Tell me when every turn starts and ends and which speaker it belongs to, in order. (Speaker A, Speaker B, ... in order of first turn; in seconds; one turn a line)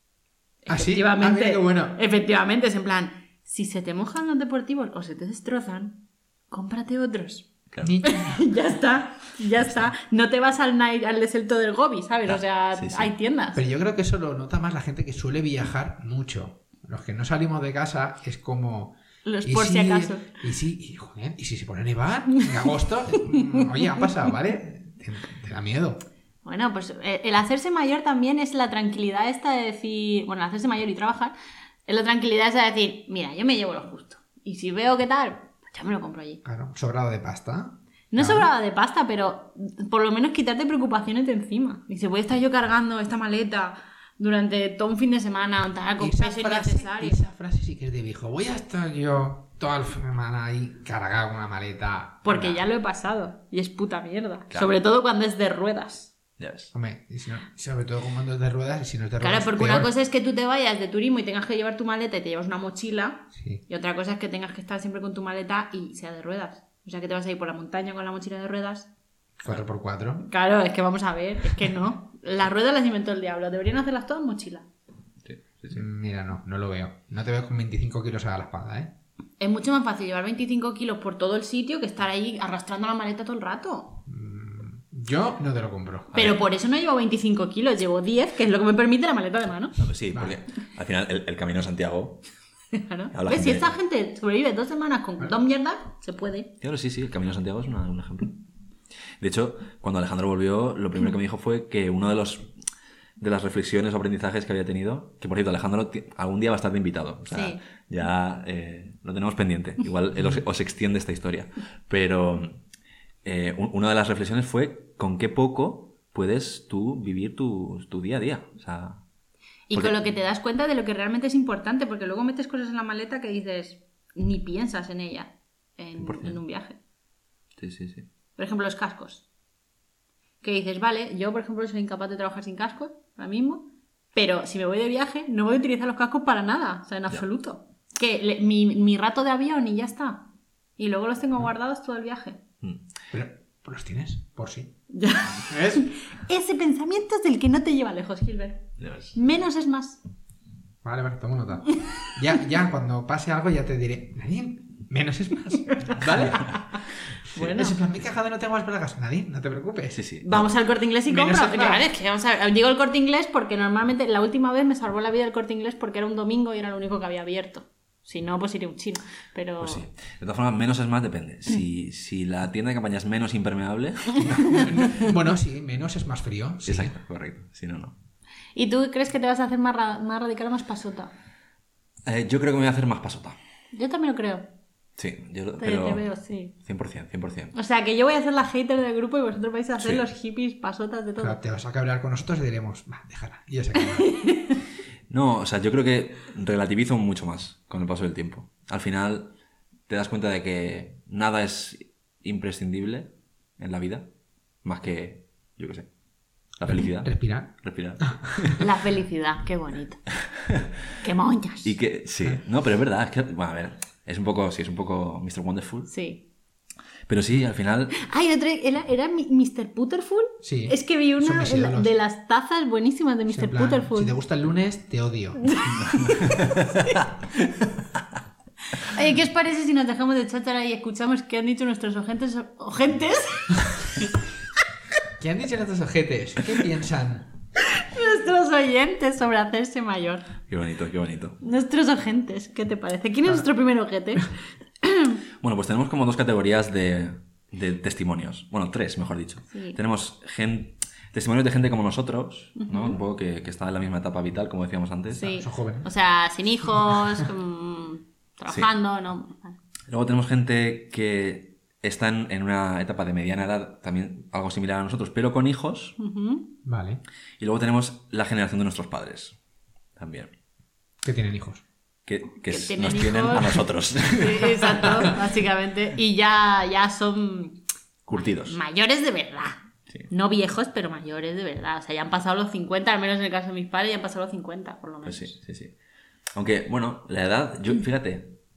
Speaker A: 0.7-7.5
Speaker B: 0.7-2.0
Speaker B: 7.8-8.4
Speaker A: 8.0-13.6
Speaker C: 12.3-13.1
Speaker B: 13.6-26.0
Speaker A: 19.2-20.3
Speaker A: 26.4-31.4
Speaker A: 31.9-36.4
Speaker B: 36.4-38.5
Speaker A: 38.1-47.2
Speaker B: 46.0-52.6
Speaker A: 52.2-56.1
Speaker C: 56.4-56.7
Speaker B: 56.7-59.9
Speaker A: 59.2-68.9
Speaker B: 63.3-63.6
Speaker B: 69.4-70.2
Speaker A: 70.2-74.7
Speaker C: 75.2-75.8
Speaker B: 75.7-78.9
Speaker A: 79.4-84.0
Speaker B: 84.1-86.1
Speaker C: 86.1-86.5
Speaker A: 86.2-89.8
Speaker C: 89.8-92.2
Speaker A: 92.7-96.5
Speaker C: 93.1-93.7
Speaker C: 96.6-98.4
Speaker C: 99.2-102.5
Speaker C: 103.2-112.6
Speaker A: 107.3-107.6
Speaker C: 113.2-119.0
Speaker A: 119.7-126.8
Speaker C: 119.7-120.0
Speaker C: 126.0-126.4
Speaker C: 127.6-128.1
Speaker A: 128.4-129.2
Speaker A: 130.4-140.3
Speaker A: 140.8-142.4
Speaker B: 143.1-144.8
Speaker A: 144.9-150.0
Speaker B: 145.5-145.8
Speaker C: 148.8-149.2
Speaker B: 150.8-156.5
Speaker A: 155.7-156.6
Speaker C: 156.0-156.5
Speaker A: 157.3-157.8
Speaker B: 157.4-160.0
Speaker C: 159.9-160.5
Speaker A: 160.2-169.8
Speaker B: 161.1-161.8
Speaker C: 169.6-174.6
Speaker B: 174.3-176.9
Speaker C: 176.6-177.9
Speaker A: 178.6-181.1
Speaker C: 182.1-183.4
Speaker A: 183.7-184.4
Speaker C: 185.0-186.1
Speaker A: 185.6-186.5
Speaker C: 186.6-187.5
Speaker A: 187.5-191.4
Speaker B: 191.2-194.1
Speaker A: 194.2-194.6
Speaker C: 195.1-199.3
Speaker C: 199.9-204.1
Speaker C: 204.6-205.9
Speaker C: 206.6-208.6
Speaker B: 206.7-207.6
Speaker A: 208.6-210.0
Speaker A: 211.0-211.7
Speaker C: 211.6-215.9
Speaker A: 215.9-216.2
Speaker C: 217.1-218.0
Speaker A: 218.0-224.1
Speaker B: 220.4-221.9
Speaker B: 223.3-225.4
Speaker A: 225.4-226.4
Speaker C: 225.7-226.7
Speaker A: 228.8-233.6
Speaker B: 235.2-237.3
Speaker A: 237.8-240.3
Speaker C: 240.5-241.4
Speaker A: 241.4-244.3
Speaker A: 244.8-245.2
Speaker C: 245.4-255.3
Speaker A: 249.5-249.8
Speaker A: 252.6-253.0
Speaker B: 255.1-255.9
Speaker A: 255.1-259.6
Speaker C: 259.9-266.0
Speaker A: 266.0-266.5
Speaker B: 266.6-267.0
Speaker C: 267.4-269.4
Speaker C: 270.0-270.3
Speaker B: 271.0-271.6
Speaker C: 272.1-275.2
Speaker A: 272.5-277.6
Speaker C: 278.1-278.6
Speaker A: 278.4-279.6
Speaker A: 280.1-285.3
Speaker C: 285.1-285.8
Speaker C: 286.4-288.4